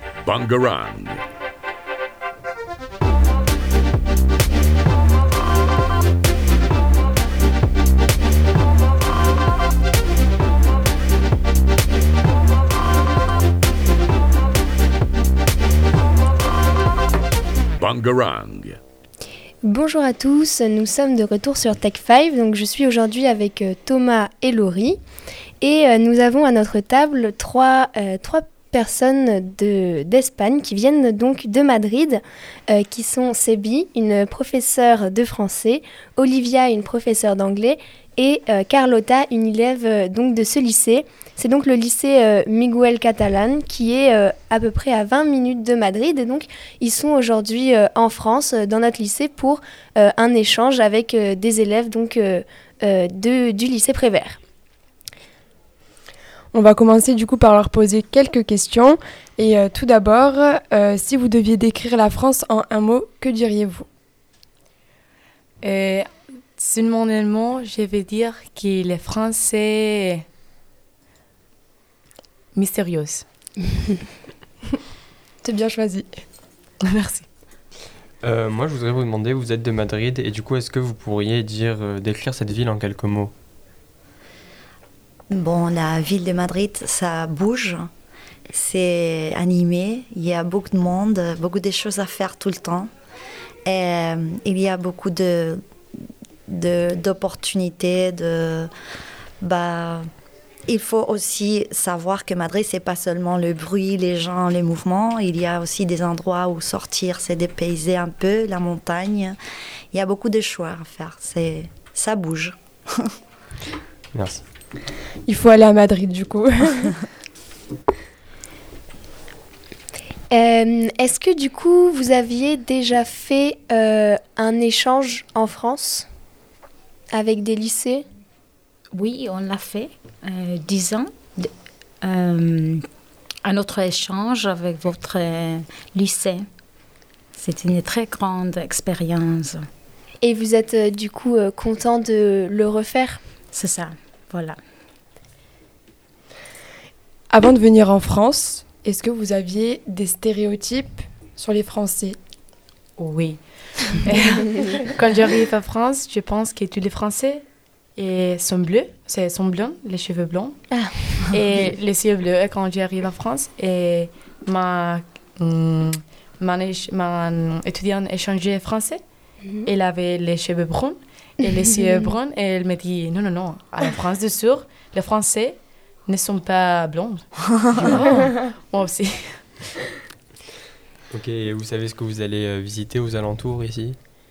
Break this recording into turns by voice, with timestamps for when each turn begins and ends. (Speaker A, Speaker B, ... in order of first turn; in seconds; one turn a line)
Speaker A: 0.2-1.2
Speaker A: 17.8-18.8
Speaker B: 19.6-25.0
Speaker B: 25.6-54.4
Speaker C: 56.5-63.9
Speaker D: 65.6-70.2
Speaker D: 72.5-73.2
Speaker C: 75.4-76.2
Speaker D: 76.8-77.3
Speaker E: 78.2-83.3
Speaker F: 85.3-87.9
Speaker F: 88.5-92.9
Speaker F: 93.7-95.6
Speaker F: 96.5-98.7
Speaker F: 99.4-100.1
Speaker F: 100.7-109.4
Speaker F: 109.9-113.0
Speaker E: 114.1-114.4
Speaker C: 115.2-117.0
Speaker B: 120.3-126.1
Speaker B: 127.1-128.0
Speaker G: 128.9-131.5
Speaker G: 132.0-132.8
Speaker G: 133.4-136.5
Speaker G: 137.4-139.7
Speaker B: 140.2-143.2
Speaker G: 143.5-144.6
Speaker C: 147.3-152.2
Speaker D: 153.0-160.6
Speaker D: 161.2-169.0
Speaker D: 169.7-179.6
Speaker E: 181.1-184.0